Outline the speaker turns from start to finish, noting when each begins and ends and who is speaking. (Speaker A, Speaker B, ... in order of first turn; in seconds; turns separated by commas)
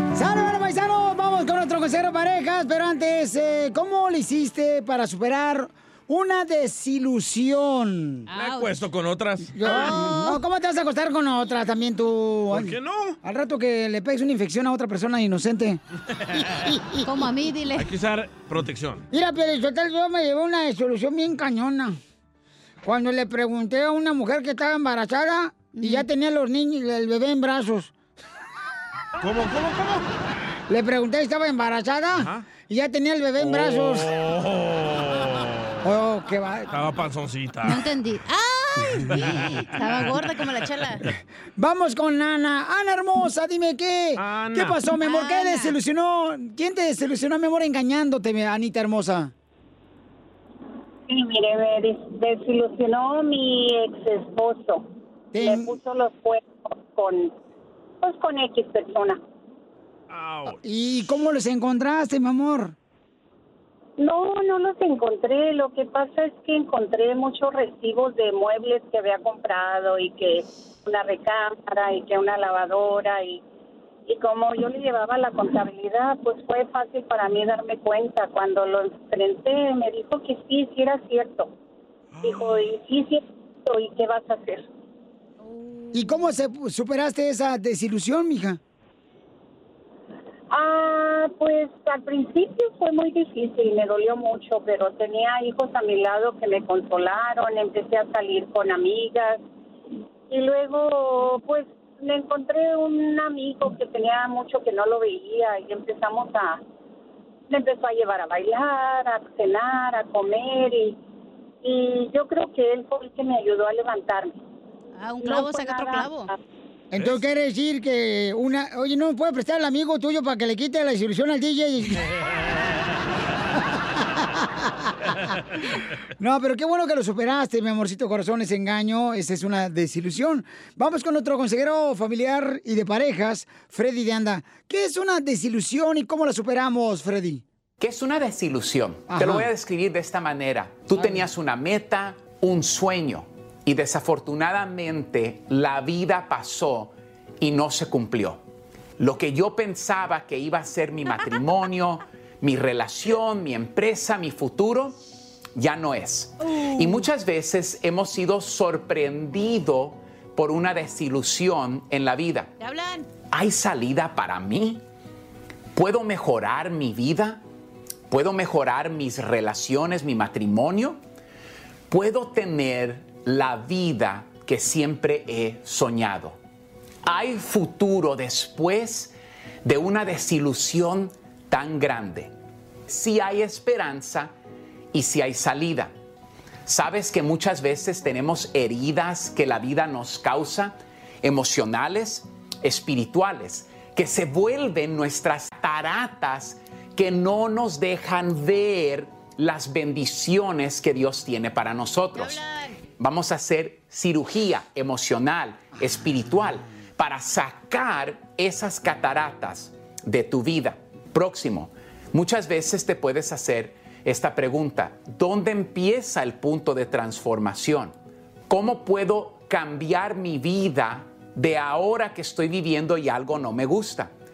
Speaker A: 0.1-8.3, Speaker B: 8.3-8.7, Speaker C: 8.3-9.7, Speaker A: 9.5-15.8, Speaker B: 9.6-10.4, Speaker C: 12.5-13.2, Speaker A: 16.4-17.1, Speaker B: 17.0-17.9, Speaker C: 17.8-19.1, Speaker A: 19.1-21.9, Speaker A: 22.8-27.9, Speaker B: 25.7-26.1, Speaker C: 29.2-30.1, Speaker A: 30.7-34.1, Speaker C: 32.1-32.5, Speaker C: 33.4-35.9, Speaker A: 35.8-36.7, Speaker C: 36.7-37.8, Speaker B: 37.6-41.0, Speaker C: 39.1-39.5, Speaker A: 41.6-49.3, Speaker C: 44.2-44.8, Speaker B: 45.0-45.7, Speaker D: 51.1-54.9, Speaker A: 55.3-55.8, Speaker D: 55.4-57.3, Speaker D: 58.0-59.2, Speaker C: 60.1-60.6, Speaker A: 60.5-62.7, Speaker D: 64.0-73.4, Speaker D: 74.1-81.5, Speaker C: 82.1-82.7, Speaker D: 82.2-84.7, Speaker B: 85.4-86.3, Speaker A: 85.9-88.6, Speaker D: 90.5-99.4, Speaker D: 100.3-106.6, Speaker D: 107.5-111.0, Speaker D: 111.6-114.4, Speaker B: 115.0-116.3, Speaker D: 115.2-116.3, Speaker A: 116.9-122.1, Speaker A: 124.0-124.9, Speaker A: 126.2-137.4, Speaker E: 137.8-148.4, Speaker A: 139.1-139.5, Speaker A: 140.9-141.2, Speaker E: 149.0-155.0, Speaker E: 155.6-162.5, Speaker B: 156.5-156.8, Speaker B: 162.6-163.1, Speaker E: 163.3-164.8, Speaker E: 165.7-167.4, Speaker E: 168.1-171.0, Speaker E: 171.9-176.4, Speaker E: 177.0-182.3, Speaker E: 182.9-184.3, Speaker E: 184.9-185.9, Speaker E: 186.6-202.4, Speaker B: 202.2-202.8, Speaker E: 203.0-217.9, Speaker E: 218.5-224.1